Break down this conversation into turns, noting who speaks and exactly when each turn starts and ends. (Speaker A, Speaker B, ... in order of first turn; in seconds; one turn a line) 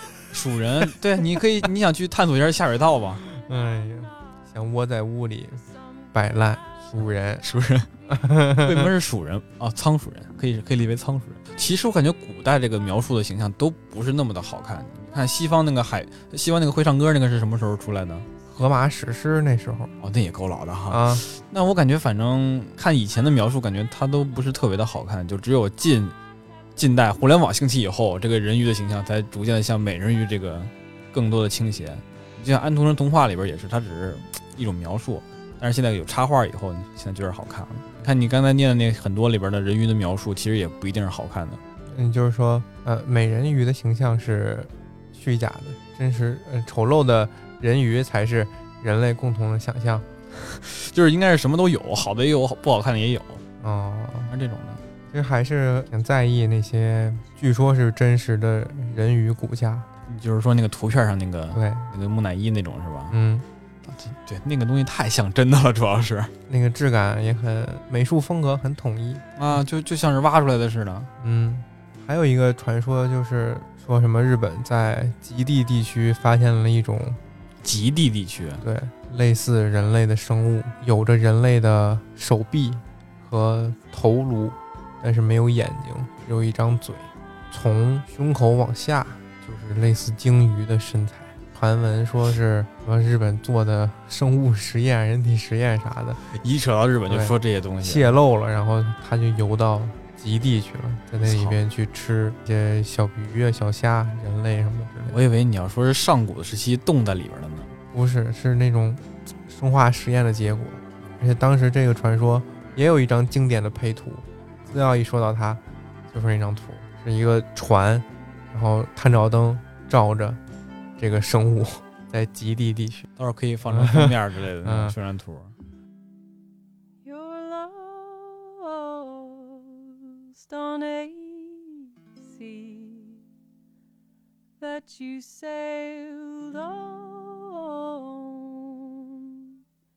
Speaker A: 0.3-3.2
Speaker B: 3.3-7.4
Speaker A: 6.9-7.9
Speaker B: 8.1-8.9
Speaker A: 8.6-18.3
Speaker B: 18.5-19.9
Speaker A: 20.0-26.2
Speaker B: 20.9-21.2
Speaker A: 26.8-41.6
Speaker B: 41.9-50.1
Speaker A: 50.4-53.4
Speaker B: 53.6-54.3
Speaker A: 54.3-54.8
Speaker B: 55.1-59.9
Speaker A: 60.1-63.1
Speaker B: 61.5-61.9
Speaker B: 63.1-63.5
Speaker A: 63.9-66.3
Speaker B: 66.5-69.3
Speaker A: 69.4-71.1
Speaker B: 71.2-77.2
Speaker A: 77.6-78.6
Speaker B: 78.6-96.2
Speaker A: 96.2-98.1
Speaker B: 97.1-105.2
Speaker A: 101.2-101.6
Speaker A: 105.1-107.7
Speaker B: 107.9-120.4
Speaker B: 121.0-123.1
Speaker A: 123.2-125.5
Speaker B: 123.6-125.0
Speaker C: 127.0-133.2
Speaker C: 134.6-139.6